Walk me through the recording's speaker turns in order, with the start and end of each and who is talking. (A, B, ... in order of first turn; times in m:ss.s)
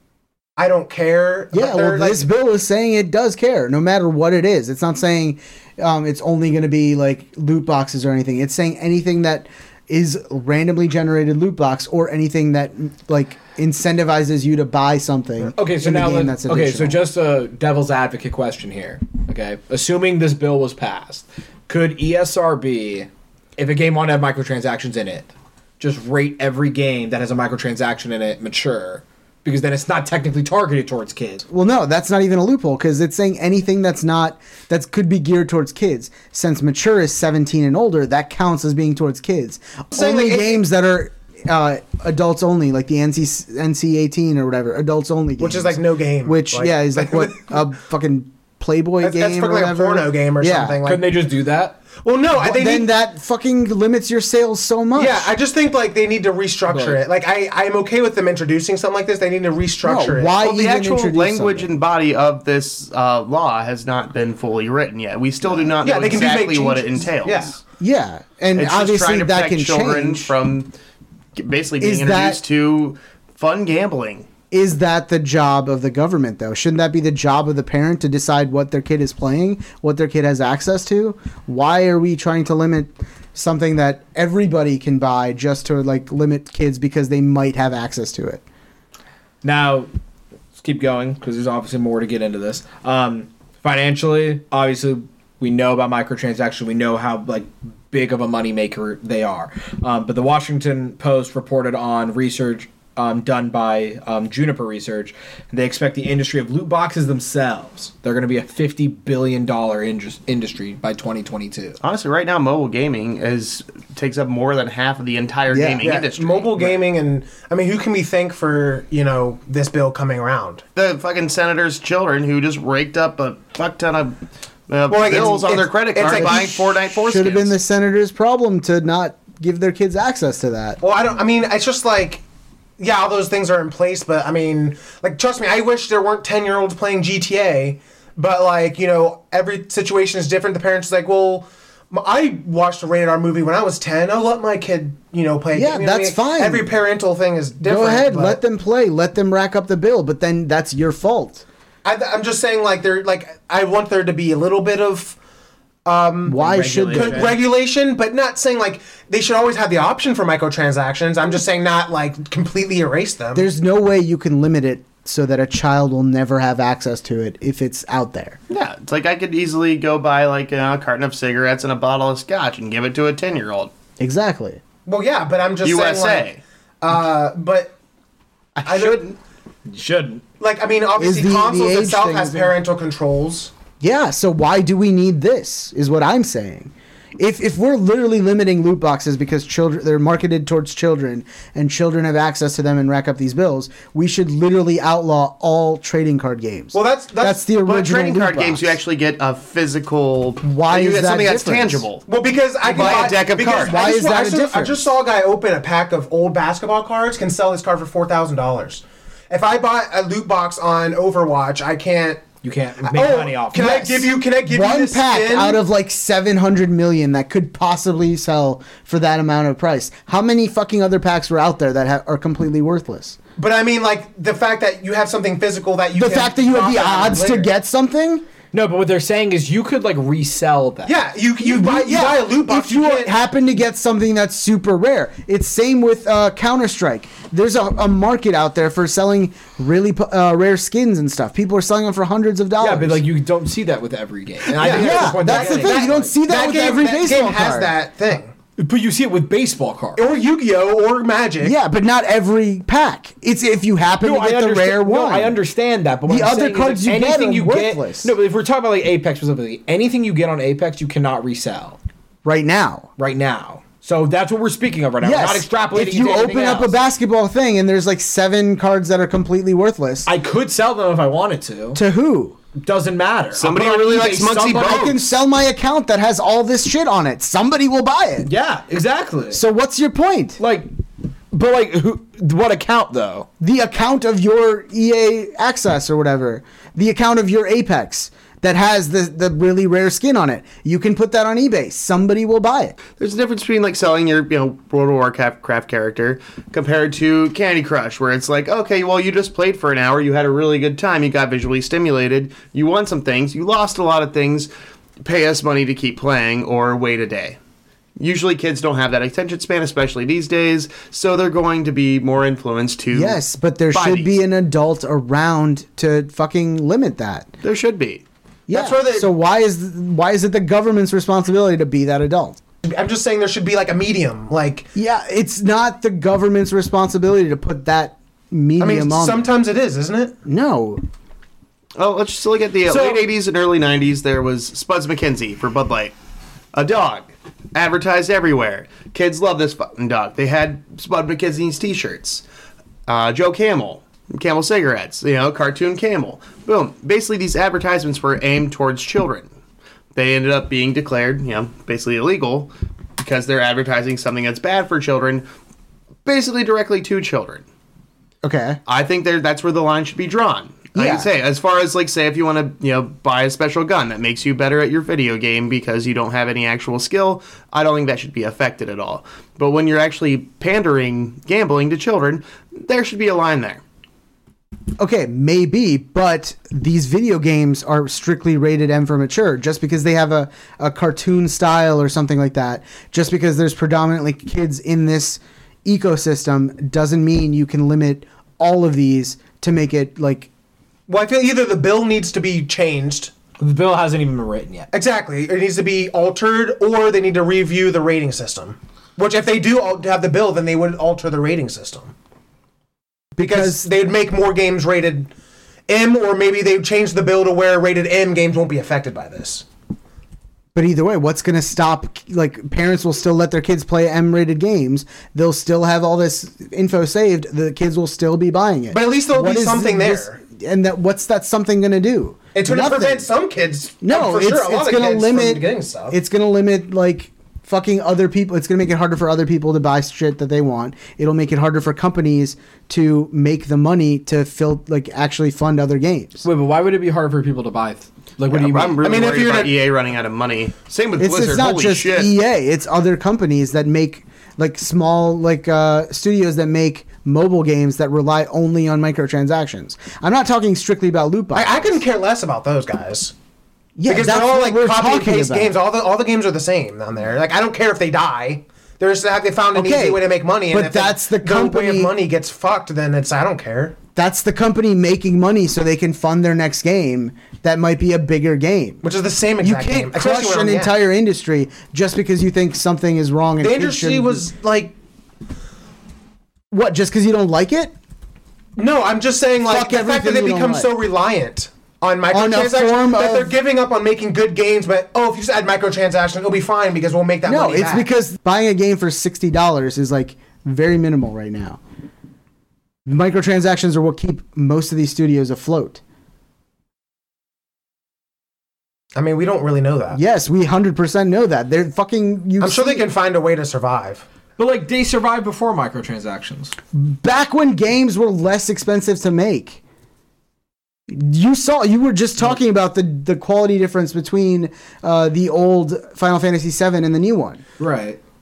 0:00.6-0:02.2 A
0:01.5-0:17.0 B
0:15.6-0:31.4 C
0:31.5-0:50.8 B
0:39.9-0:40.6 A
0:45.4-0:47.5 A
0:49.0-0:51.1 A
0:50.8-0:51.8 C
0:52.0-0:52.9 A
0:52.4-0:55.3 B
0:55.0-1:00.4 A
0:56.7-0:57.0 C
0:59.8-1:01.7 B
1:00.4-1:07.6 D
1:05.8-1:07.6 A
1:07.8-1:10.3 B
1:08.6-1:10.7 D
1:11.4-1:14.3 D
1:11.8-1:12.4 B
1:14.5-1:28.4 B
1:29.4-1:29.9 C
1:30.6-1:51.8 C
1:51.8-1:56.8 D
1:55.5-1:56.0 B
1:55.8-2:00.6 A
2:00.8-2:04.2 D
2:04.7-2:07.6 D
2:04.9-2:06.7 A
2:06.1-2:10.8 B
2:10.8-2:12.2 A
2:12.8-2:28.4 A
2:25.5-2:26.6 B
2:27.6-2:31.4 B
2:31.8-2:35.2 A
2:35.8-2:36.4 A
2:36.3-2:37.4 B
2:36.4-2:37.4 C
2:36.9-2:43.4 A
2:43.3-2:48.4 B
2:48.5-2:53.7 D
2:54.0-2:54.6 B
2:54.8-2:56.3 A
2:55.6-2:56.4 D
2:56.8-2:57.7 A
2:58.6-2:59.1 A
2:59.7-3:00.2 C
3:00.4-3:03.5 A
3:01.0-3:02.5 B
3:03.8-3:18.8 B
3:16.7-3:17.4 A
3:17.6-3:22.0 D
3:20.4-3:21.8 B
3:22.1-3:32.2 A
3:22.6-3:23.8 D
3:23.5-3:24.9 B
3:32.4-3:34.0 C
3:32.8-3:35.6 A
3:33.6-3:43.2 B
3:43.4-3:47.5 A
3:45.9-3:48.2 B
3:48.5-3:50.9 C
3:50.8-3:53.1 A
3:51.4-4:03.0 B
4:02.6-4:06.1 C
4:04.6-4:07.7 B
4:04.6-4:08.3 A
4:08.6-4:10.0 C
4:10.0-4:11.6 A
4:11.4-4:15.4 B
4:14.0-4:21.8 C
4:16.1-4:18.1 B
4:22.2-4:22.9 B
4:23.0-4:26.8 C
4:25.0-4:30.1 B
4:30.0-4:31.8 C
4:31.7-4:32.4 B
4:32.6-4:34.9 C
4:33.3-4:35.0 D
4:34.5-4:38.3 B
4:38.2-4:39.4 C
4:39.3-4:40.4 B
4:40.4-4:40.7 C
4:41.3-4:43.3 C
4:43.4-4:52.8 B
4:52.9-5:04.5 D
5:05.0-5:07.4 D
5:08.0-5:13.2 D
5:12.9-5:17.3 B
5:13.7-5:14.2 D
5:17.4-5:18.0 D
5:18.5-5:22.4 B
5:18.5-5:19.1 A
5:22.6-5:24.7 A
5:24.7-5:29.2 B
5:28.6-5:30.1 A
5:30.2-5:30.8 B
5:31.8-5:35.9 D
5:32.7-5:33.0 C
5:36.5-5:42.2 D
5:42.9-5:49.3 D
5:49.9-5:55.2 D
5:56.0-5:57.4 D
5:58.2-5:58.6 B
5:58.6-6:13.6 D
6:00.7-6:01.1 B
6:14.8-6:30.3 B
6:30.9-6:33.1 A
6:33.4-6:34.7 C
6:34.7-6:41.9 A
6:43.2-6:43.7 B
6:43.2-6:45.1 A
6:45.7-6:49.4 A
6:50.5-7:03.1 B
6:58.7-7:00.2 A
7:02.3-7:06.0 A
7:03.8-7:16.2 B
7:16.2-7:18.9 C
7:18.3-7:22.1 D
7:18.8-7:19.5 A
7:21.0-7:31.8 B
7:31.3-7:33.1 A
7:33.8-7:35.5 B
7:33.9-7:43.8 A
7:39.5-7:41.9 B
7:44.0-7:48.8 B
7:48.8-7:50.7 A
7:49.4-7:54.2 B
7:53.4-7:54.7 A
7:56.5-7:57.7 B
7:58.6-8:07.8 A
7:59.4-8:00.7 B
8:02.1-8:03.3 B
8:07.2-8:11.6 B
8:12.8-8:15.8 B
8:18.9-8:20.0 A
8:19.9-8:22.9 B
8:22.4-8:24.0 A
8:24.4-8:26.5 C
8:26.7-8:29.6 B
8:30.9-8:37.4 B
8:37.6-8:38.0 C